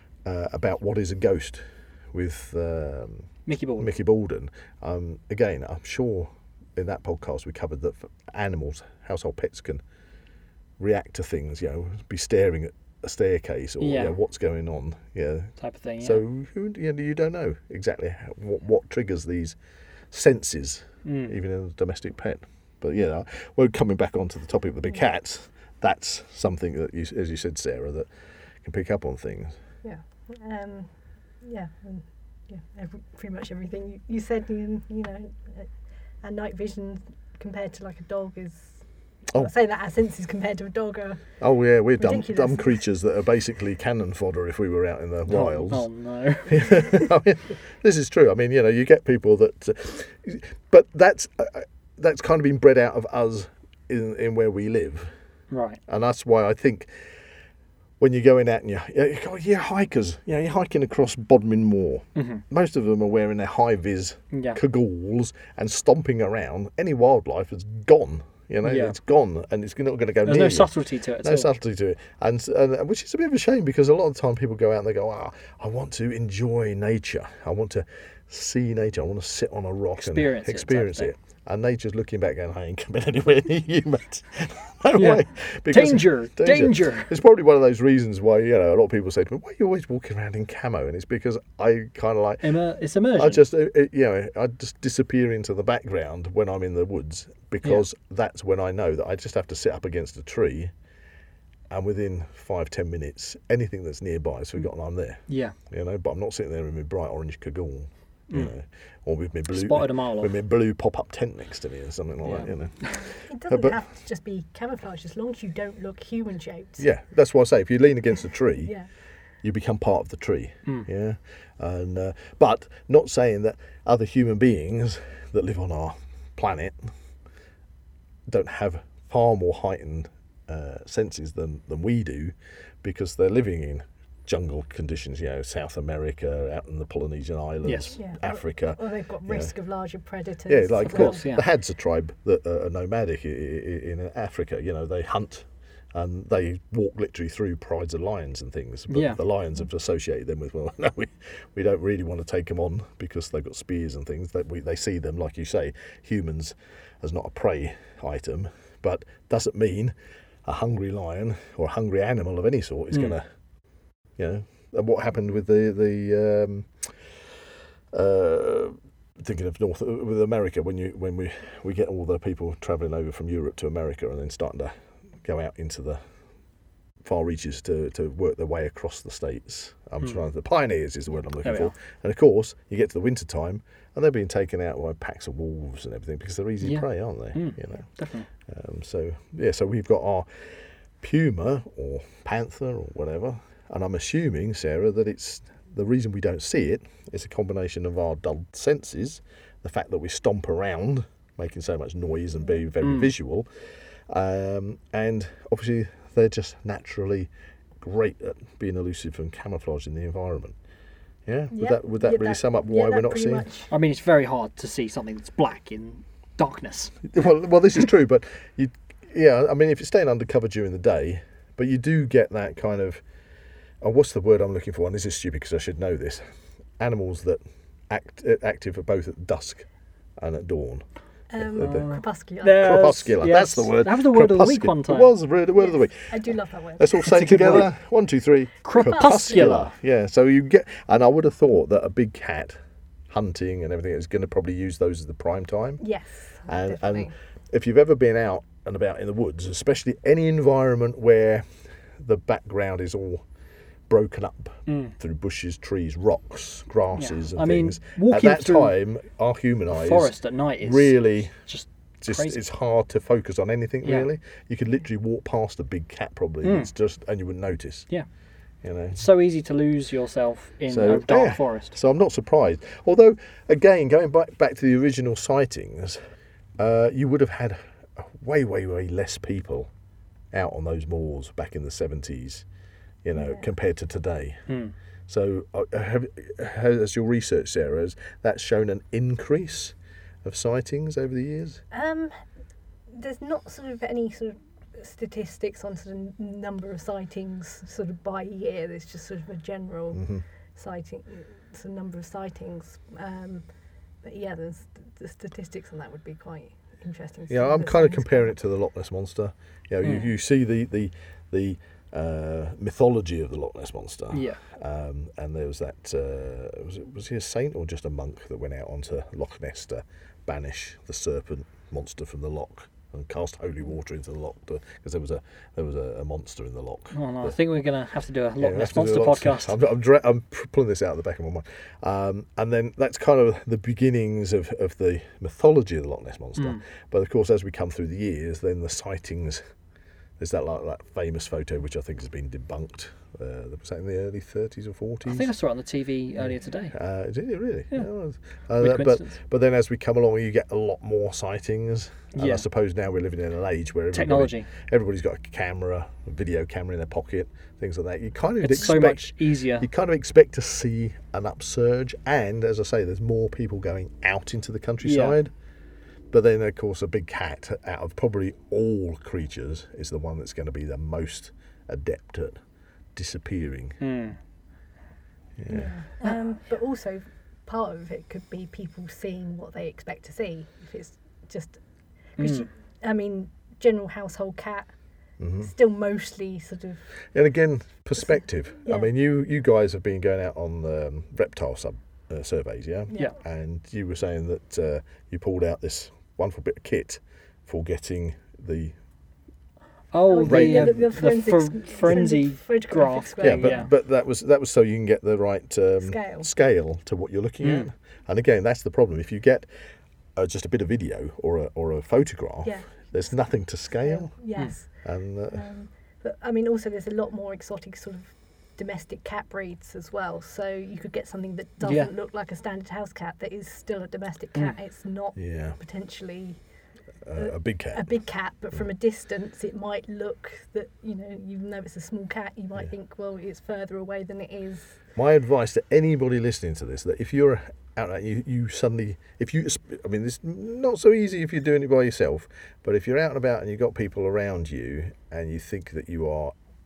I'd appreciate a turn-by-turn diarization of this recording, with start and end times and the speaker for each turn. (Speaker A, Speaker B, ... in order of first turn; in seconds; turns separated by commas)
Speaker A: 0.2-1.6, Speaker A: 2.1-9.8, Speaker B: 3.5-3.9, Speaker A: 10.8-19.6, Speaker B: 13.8-14.1, Speaker B: 15.6-16.2, Speaker A: 20.1-28.1, Speaker B: 21.0-21.3, Speaker A: 28.6-29.5, Speaker C: 29.8-30.9, Speaker C: 31.4-35.7, Speaker C: 36.2-41.2, Speaker A: 41.4-45.9, Speaker C: 42.0-42.8, Speaker B: 45.3-47.1, Speaker A: 46.5-55.1, Speaker B: 55.5-55.8, Speaker A: 55.9-56.9, Speaker A: 58.0-92.4, Speaker B: 62.1-62.4, Speaker B: 64.3-64.6, Speaker B: 68.6-69.0, Speaker B: 70.2-71.5, Speaker B: 80.0-81.1, Speaker B: 85.0-87.1, Speaker B: 92.4-93.4, Speaker A: 93.2-100.7, Speaker A: 101.7-113.8, Speaker B: 105.3-105.5, Speaker B: 109.5-110.3, Speaker B: 112.2-113.0, Speaker C: 113.0-116.8, Speaker A: 116.8-118.7, Speaker C: 118.6-118.9, Speaker A: 119.4-126.9, Speaker A: 128.3-139.5, Speaker B: 137.6-137.9, Speaker C: 137.9-141.3, Speaker A: 140.5-159.9, Speaker B: 140.9-141.4, Speaker B: 148.9-149.2, Speaker A: 160.4-163.2, Speaker A: 164.2-166.9, Speaker A: 167.9-174.7, Speaker A: 175.2-176.0, Speaker A: 177.0-187.8, Speaker B: 181.4-181.7, Speaker B: 186.6-188.3, Speaker A: 188.5-190.3, Speaker A: 191.0-203.5, Speaker B: 202.8-203.1, Speaker A: 204.1-207.3, Speaker A: 207.8-210.6, Speaker A: 211.2-213.4, Speaker C: 211.5-213.7, Speaker B: 213.7-216.9, Speaker A: 217.1-223.0, Speaker A: 223.8-226.2, Speaker A: 226.8-229.7, Speaker A: 230.2-230.8, Speaker C: 231.3-232.8, Speaker A: 231.4-231.8, Speaker B: 231.6-235.1, Speaker A: 232.6-236.1, Speaker C: 235.6-237.1, Speaker A: 236.8-242.6, Speaker B: 237.0-237.7, Speaker B: 238.6-239.7, Speaker C: 238.8-239.6, Speaker A: 243.1-245.8, Speaker C: 245.8-247.1, Speaker A: 246.5-251.4, Speaker A: 252.0-253.2, Speaker A: 253.9-261.3, Speaker B: 254.7-254.9, Speaker B: 256.9-258.7, Speaker B: 259.7-262.4, Speaker A: 262.0-267.9, Speaker B: 263.8-264.1, Speaker B: 266.4-266.7, Speaker A: 268.6-269.0, Speaker B: 269.0-271.8, Speaker A: 270.7-276.0, Speaker A: 276.6-279.7, Speaker A: 280.3-282.4, Speaker A: 283.0-284.4, Speaker C: 283.1-283.5, Speaker B: 284.5-284.7, Speaker A: 285.1-291.6, Speaker C: 291.7-292.1, Speaker C: 292.9-303.4, Speaker A: 299.9-300.2, Speaker C: 304.0-308.3, Speaker A: 307.3-327.3, Speaker B: 314.1-314.4, Speaker B: 326.9-329.6, Speaker A: 328.4-339.4, Speaker A: 340.2-345.3, Speaker B: 345.1-346.7, Speaker A: 346.7-365.3, Speaker B: 348.6-349.1, Speaker B: 352.1-352.4, Speaker B: 353.9-354.5, Speaker B: 358.4-359.7, Speaker B: 364.8-365.2, Speaker A: 366.1-372.4, Speaker A: 372.9-373.8, Speaker B: 373.8-374.2, Speaker A: 375.4-375.7, Speaker C: 375.5-381.6, Speaker C: 382.2-384.7, Speaker B: 382.2-382.5, Speaker A: 385.2-385.5, Speaker C: 385.4-386.8, Speaker A: 387.1-398.7, Speaker B: 399.9-403.7, Speaker C: 400.1-403.6, Speaker A: 400.3-400.9, Speaker A: 403.2-409.4, Speaker C: 405.8-406.3, Speaker B: 407.4-407.7, Speaker A: 410.1-414.1, Speaker C: 412.4-413.1, Speaker C: 413.8-414.7, Speaker A: 414.8-415.4, Speaker C: 415.3-426.4, Speaker B: 421.6-421.9, Speaker A: 425.2-425.6, Speaker A: 427.1-427.8, Speaker C: 427.2-434.7, Speaker A: 434.9-446.3